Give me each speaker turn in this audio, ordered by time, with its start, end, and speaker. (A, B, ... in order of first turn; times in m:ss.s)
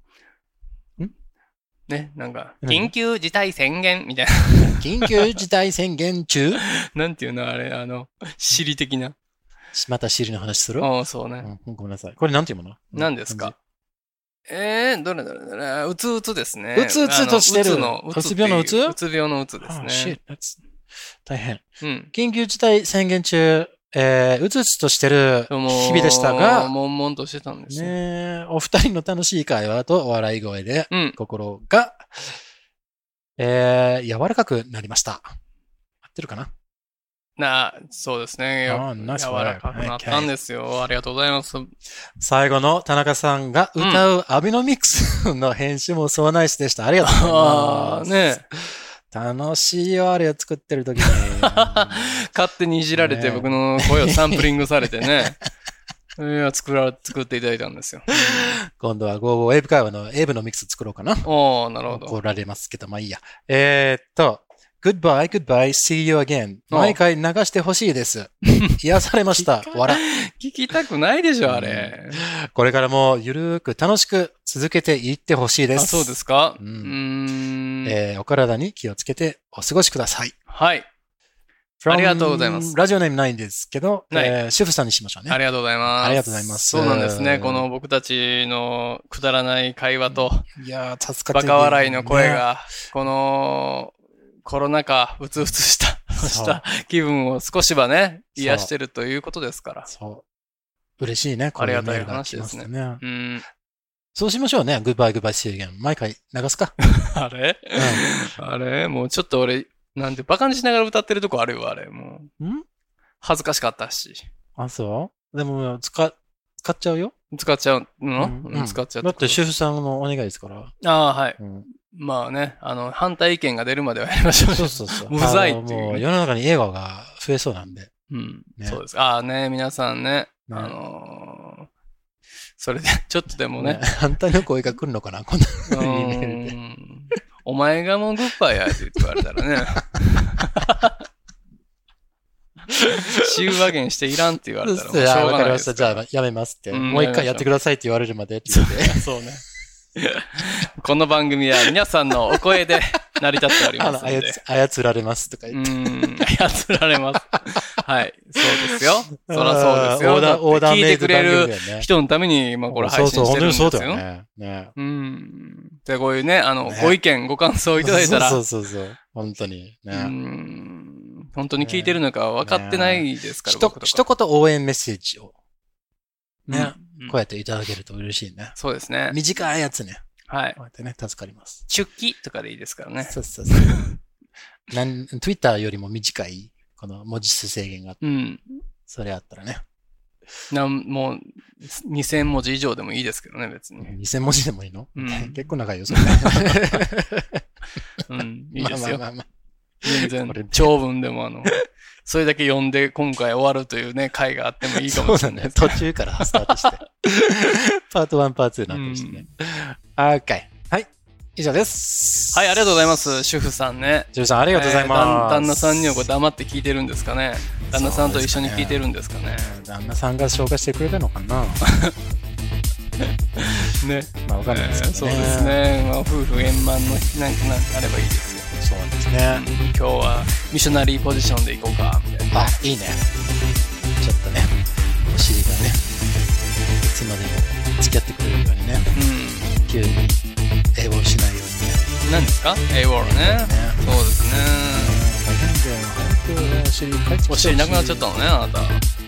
0:01.9-0:05.4 A
0:02.6-0:02.9 B
0:04.8-0:06.6 B
0:06.6-0:09.2 A
0:09.7-0:13.6 B
0:10.8-0:11.5 A
0:12.9-0:13.5 A
0:14.5-0:20.2 A
0:16.8-0:19.0 B
0:19.6-0:20.6 B
0:21.2-0:26.7 B
0:21.8-0:22.1 A
0:25.5-0:28.0 A
0:27.7-0:32.4 B
0:30.9-0:31.2 A
0:33.4-0:35.4 B
0:36.0-0:36.5 B
0:37.4-0:41.7 A
0:38.7-0:40.3 B
0:42.2-0:52.2 B
0:43.8-0:44.0 A
0:47.0-0:48.4 A
0:51.0-0:55.4 A
0:53.0-0:54.5 B
0:56.2-0:58.6 A
0:58.2-1:01.3 B
1:01.2-1:02.2 A
1:01.9-1:10.0 B
1:06.7-1:07.0 A
1:09.4-1:12.2 A
1:11.5-1:17.0 B
1:15.8-1:18.0 A
1:17.8-1:20.4 B
1:20.5-1:20.9 A
1:21.8-1:25.4 B
1:21.9-1:22.8 A
1:24.1-1:24.4 A
1:25.3-1:30.5 A
1:25.9-1:27.7 B
1:30.1-1:32.4 B
1:31.3-1:39.9 A
1:36.2-1:36.6 B
1:38.4-1:38.7 B
1:39.9-1:40.2 B
1:41.0-1:43.0 B
1:41.6-1:43.5 A
1:44.2-1:46.8 B
1:46.8-1:52.3 A
1:47.8-1:48.1 B
1:53.2-1:54.2 A
1:54.6-1:57.1 B
1:57.3-1:59.4 A
1:58.2-2:00.7 B
2:00.8-2:06.0 A
2:01.4-2:01.7 B
2:04.5-2:07.9 B
2:08.1-2:11.7 A
2:10.5-2:10.8 B
2:12.6-2:13.8 A
2:13.6-2:16.6 B
2:15.7-2:21.0 A
2:19.0-2:19.4 B
2:22.7-2:23.2 B
2:23.2-2:26.0 A
2:24.6-2:29.1 B
2:26.7-2:27.5 A
2:28.5-2:29.4 A
2:30.0-2:34.4 A
2:32.3-2:36.1 B
2:35.5-2:44.0 A
2:39.1-2:41.9 B
2:42.7-2:44.7 B
2:44.8-2:48.4 A
2:46.7-2:47.0 B
2:47.8-2:50.1 B
2:49.9-2:54.0 A
2:51.6-2:55.3 B
2:56.5-2:58.6 B
2:56.5-2:57.2 A
2:58.6-2:59.2 A
2:59.1-3:00.0 B
3:00.3-3:00.6 A
3:00.6-3:01.6 B
3:01.7-3:04.0 A
3:03.1-3:03.8 B
3:04.7-3:08.0 B
3:08.0-3:08.6 A
3:08.9-3:09.6 B
3:10.5-3:13.9 A
3:13.8-3:17.4 B
3:15.0-3:16.8 A
3:18.1-3:19.0 A
3:18.6-3:19.3 B
3:19.8-3:20.7 B
3:19.8-3:26.7 A
3:24.7-3:33.0 B
3:28.7-3:29.3 A
3:32.3-3:39.6 A
3:34.1-3:36.1 B
3:37.7-3:41.6 B
3:41.6-3:42.0 A
3:43.0-3:48.5 A
3:44.2-3:45.6 B
3:48.5-3:49.4 B
3:49.3-3:52.5 A
3:52.3-3:53.1 B
3:54.0-3:55.9 B
3:56.8-3:58.9 B
3:59.0-3:59.8 A
3:59.7-4:00.2 B
4:00.8-4:01.8 B
4:02.0-4:05.0 A
4:03.0-4:03.8 B
4:04.6-4:08.1 B
4:07.3-4:08.8 A